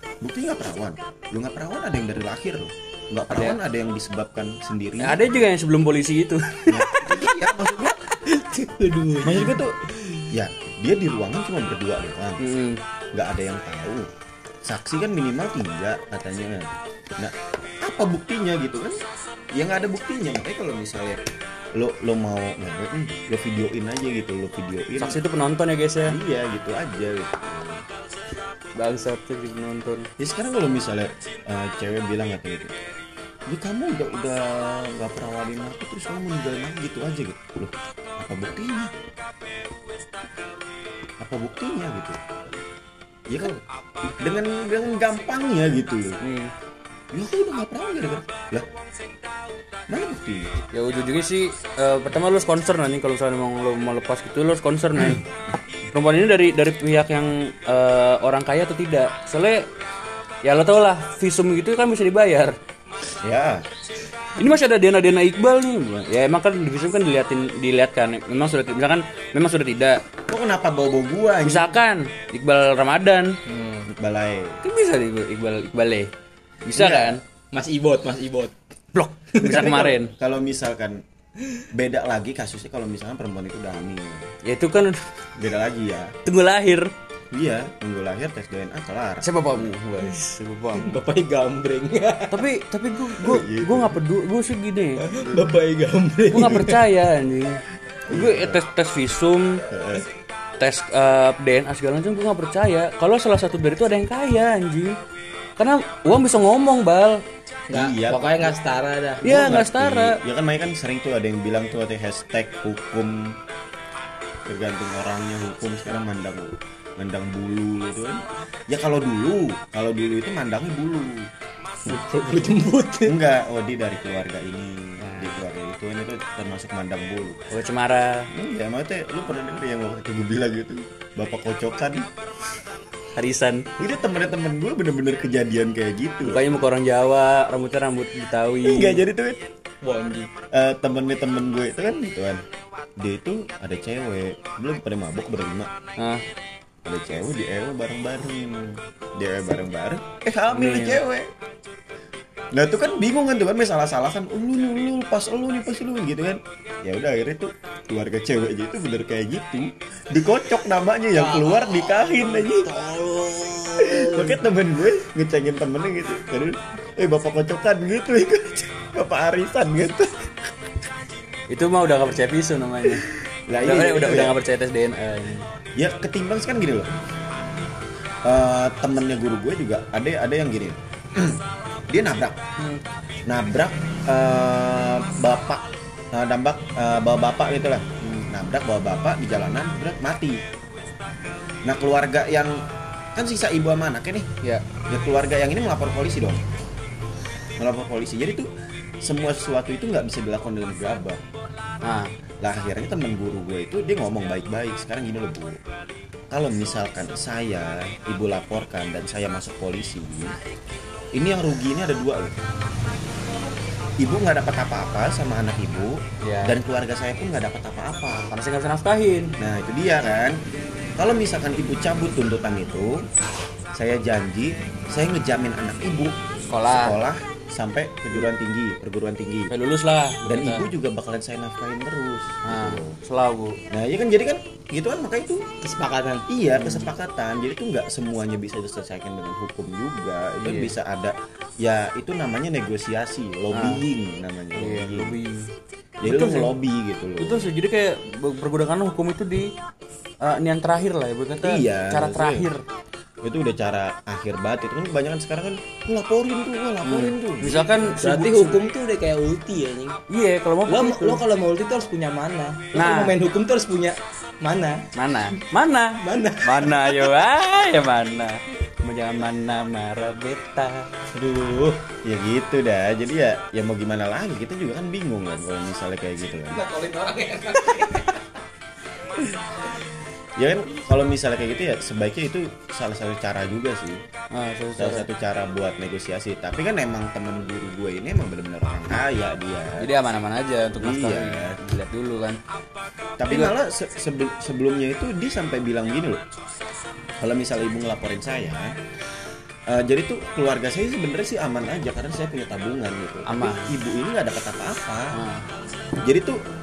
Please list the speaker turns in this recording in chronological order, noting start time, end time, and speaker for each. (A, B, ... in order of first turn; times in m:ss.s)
0:00.2-0:05.4 A
0:03.3-0:03.6 B
0:05.0-0:07.1 B
0:06.7-0:08.0 A
0:08.2-0:10.3 C
0:09.2-0:09.8 A
0:10.3-0:12.4 A
0:12.4-0:12.8 B
0:13.1-0:14.1 A
0:14.6-0:19.0 A
0:19.5-0:21.2 A
0:21.7-0:25.2 A
0:25.0-0:26.2 B
0:26.0-0:27.8 A
0:28.8-0:30.1 B
0:30.2-0:32.8 A
0:33.5-0:38.9 A
0:41.2-0:42.2 A
0:43.3-0:43.6 A
0:44.2-0:46.2 A
0:46.2-0:46.5 B
0:47.1-0:48.7 A
0:49.9-0:50.5 A
0:50.7-0:55.2 B
0:55.9-0:59.7 B
1:00.4-1:02.6 B
1:03.2-1:03.7 A
1:04.4-1:10.0 B
1:10.3-1:11.8 A
1:11.4-1:13.4 B
1:13.5-1:13.9 C
1:13.9-1:14.6 A
1:14.6-1:16.1 B
1:16.6-1:17.2 B
1:16.8-1:17.2 A
1:17.5-1:18.5 C
1:18.9-1:20.1 B
1:19.4-1:19.8 C
1:19.4-1:21.0 A
1:21.7-1:24.3 A
1:24.4-1:25.0 B
1:25.4-1:26.2 A
1:26.2-1:26.9 B
1:27.3-1:29.7 A
1:29.2-1:31.0 B
1:30.8-1:32.5 C
1:32.3-1:35.1 B
1:33.2-1:34.0 A
1:35.0-1:36.8 C
1:35.1-1:35.6 A
1:36.3-1:39.7 B
1:38.1-1:38.6 A
1:39.7-1:40.1 A
1:40.6-1:45.0 B
1:45.6-1:47.2 B
1:47.7-1:49.3 C
1:47.7-1:48.6 A
1:49.2-1:53.4 A
1:49.2-1:50.2 B
1:54.5-2:01.3 A
2:01.9-2:03.2 C
2:03.0-2:07.4 A
2:05.0-2:05.4 B
2:07.5-2:08.3 B
2:08.3-2:12.1 A
2:13.2-2:13.7 B
2:13.8-2:16.5 A
2:16.2-2:19.0 B
2:18.6-2:19.5 A
2:19.8-2:20.3 C
2:20.5-2:22.4 A
2:23.0-2:25.7 A
2:26.0-2:26.2 B
2:26.8-2:31.3 A
2:30.5-2:31.0 B
2:32.5-2:42.7 A
2:41.2-2:44.4 C
2:43.8-2:50.3 A
2:51.5-2:53.1 B
2:53.5-2:54.4 A
2:53.6-2:55.5 B
2:55.8-2:56.9 A
2:58.2-3:02.4 A
3:03.3-3:10.4 A
3:11.6-3:14.3 A
3:14.9-3:16.4 A
3:17.6-3:18.5 A
3:19.0-3:21.2 A
3:21.8-3:22.1 B
3:22.4-3:25.6 A
3:26.3-3:30.4 A
3:31.1-3:32.4 A
3:34.0-3:38.3 A
3:36.2-3:36.6 B
3:38.3-3:39.4 B
3:39.4-3:40.4 A
3:41.0-3:43.1 A
3:43.7-3:49.5 A
3:46.5-3:47.0 B
3:49.5-3:50.7 B
3:50.2-3:53.0 A
3:52.4-3:53.6 B
3:53.7-3:55.5 A
3:55.6-3:56.3 C
3:56.3-4:05.2 A
3:56.6-3:56.9 B
4:00.4-4:00.7 B
4:03.5-4:03.8 B
4:04.6-4:05.5 B
4:06.0-4:07.5 A
4:06.0-4:06.5 B
4:07.2-4:09.5 B
4:10.2-4:12.6 B
4:11.4-4:12.5 A
4:13.2-4:18.0 A
4:16.8-4:18.6 B
4:18.0-4:20.0 C
4:20.1-4:21.2 B
4:20.7-4:25.4 C
4:22.7-4:23.2 B
4:24.9-4:30.9 B
4:26.0-4:27.1 C
4:31.1-4:31.8 C
4:32.0-4:36.6 A
4:36.5-4:38.3 C
4:40.4-4:44.0 A
4:44.3-4:45.1 B
4:44.8-4:49.9 A
4:49.8-4:52.4 B
4:50.8-4:51.6 A
4:53.2-4:56.2 A
4:57.2-4:58.8 A
4:59.7-5:05.2 A
5:03.3-5:03.7 B
5:05.1-5:05.5 B
5:06.0-5:06.4 A